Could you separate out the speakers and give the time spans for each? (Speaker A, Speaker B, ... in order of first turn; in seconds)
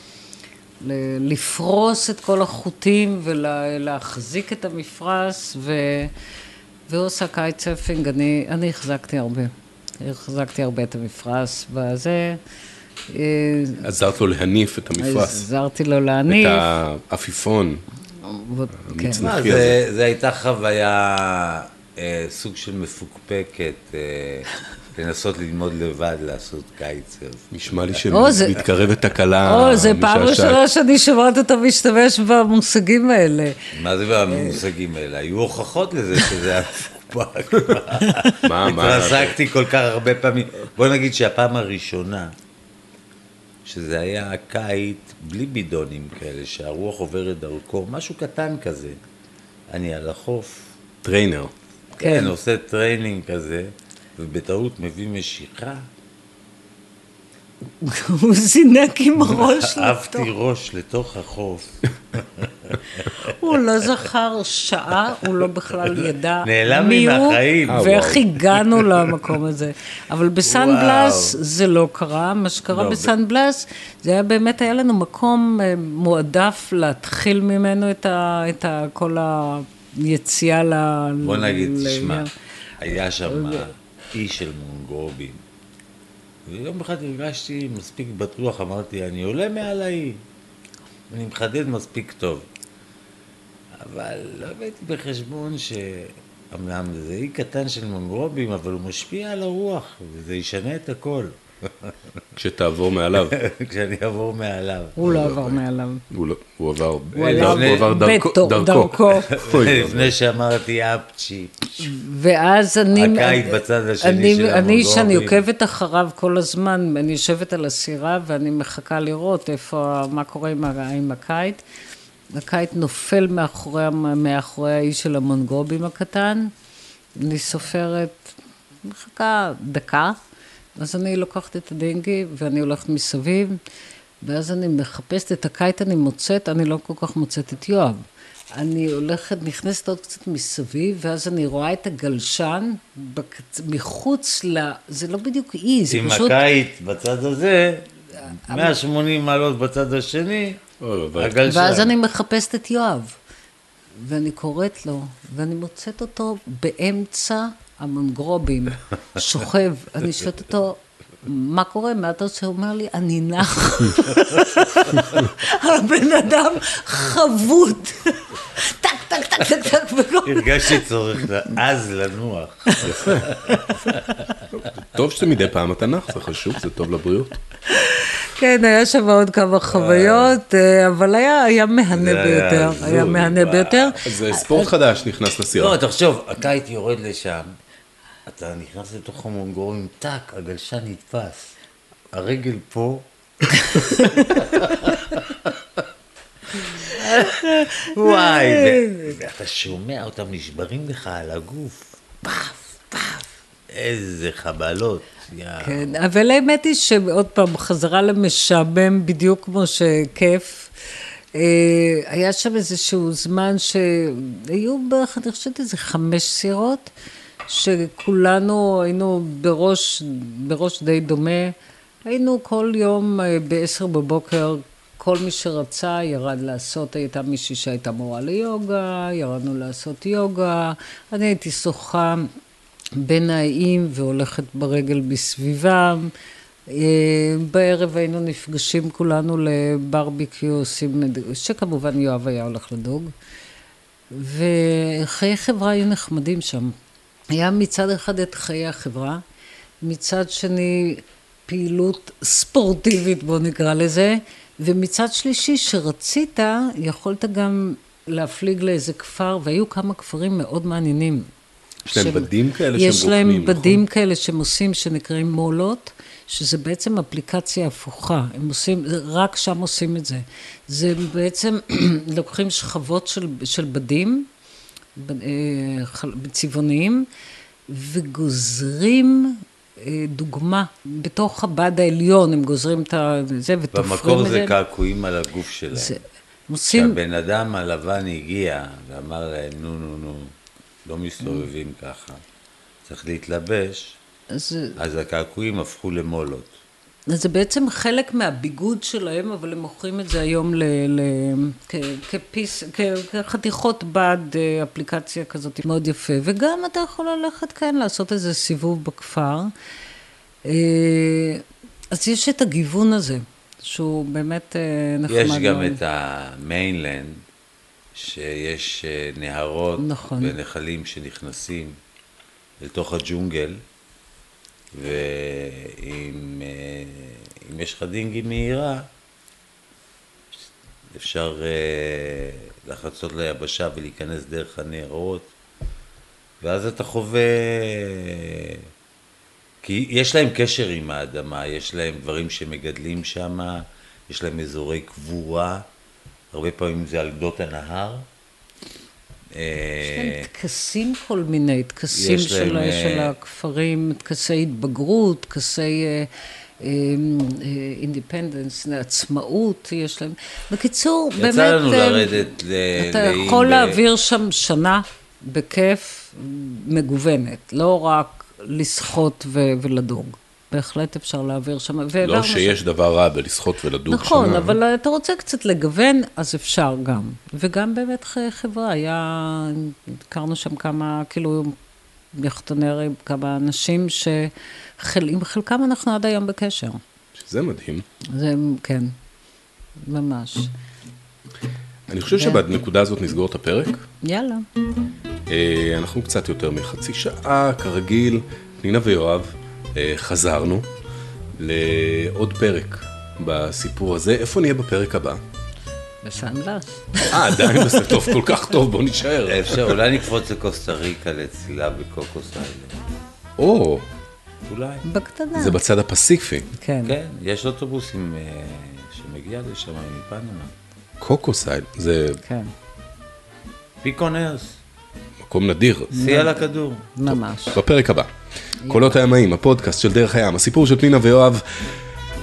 Speaker A: 0.8-6.1, 6.9-12.4, 13.1-13.8, 15.0-16.6, 18.2-19.3, 28.1-28.6, 29.4-33.7, 34.3-34.6, 38.0-38.4, 52.0-52.3, 57.8-60.3, 63.2-82.3, 83.2-83.7, 105.0-106.0, 107.1-109.3, 111.8-121.6, 122.3-126.5, 127.2-130.2, 130.8-133.6, 134.2-138.0, 138.5-146.4, 148.5-148.8, 151.4-153.2, 154.0-170.8, 172.7-174.4, 177.7-184.7, 193.5-194.7, 196.8-199.2, 205.6-210.7, 211.3-216.9, 217.5-221.5, 222.1-232.3, 232.9-236.1, 236.7-243.1, 244.1-246.7, 247.3-249.2, 249.8-261.3, 261.9-274.3, 274.9-277.1, 277.7-284.6, 285.7-287.0, 294.3-294.8, 297.1-309.5, 310.4-315.8, 319.8-320.3, 349.8-356.1, 356.6-372.6, 373.9-381.6, 382.1-386.8, 388.1-388.9, 389.8-390.5, 392.1-392.4, 394.0-394.4, 406.0-408.1, 414.8-415.6, 416.6-416.9, 422.2-422.5, 425.9-426.4, 426.9-427.6, 428.6-429.0
Speaker B: 13.8-15.4, 16.3-17.8, 18.8-19.8, 27.5-30.6, 38.4-39.4, 51.0-51.5, 67.7-68.2, 102.3-103.3, 105.1-105.6, 106.1-110.1, 150.8-151.4, 172.8-173.3, 174.5-177.3, 184.0-185.8, 261.9-263.8, 372.0-374.6, 387.1-387.8, 391.9-393.9, 395.3-400.7, 401.4-405.2, 407.1-409.8, 413.4-413.9, 415.3-416.5, 421.0-422.2, 425.2-425.9, 427.1-428.1, 428.7-431.8
Speaker C: 19.2-28.7, 33.7-42.3, 43.6-49.0, 49.7-50.7, 52.0-55.9, 59.2-63.3, 65.9-67.9, 70.4-71.4, 72.7-73.1, 81.2-82.3, 82.8-85.4, 86.5-90.2, 91.1-92.5, 93.7-102.0, 103.1-105.0, 107.3-107.9, 109.3-111.9, 112.9-115.4, 145.9-150.6, 151.2-151.9, 170.2-174.0, 179.7-180.4, 181.9-184.0, 185.5-187.5, 188.3-191.5, 192.1-193.1, 193.7-195.5, 196.8-201.9, 203.7-205.9, 283.7-285.9, 286.7-290.3, 290.8-292.2, 292.9-294.0, 294.8-296.5, 315.1-317.2, 317.9-321.8, 322.6-323.6, 324.7-328.9, 330.9-335.3, 336.4-338.6, 339.6-345.6, 346.3-348.1, 349.3-350.3, 351.9-353.1, 361.2-363.8, 409.2-412.8, 414.5-414.8, 416.9-420.5, 423.8-424.6, 425.9-426.9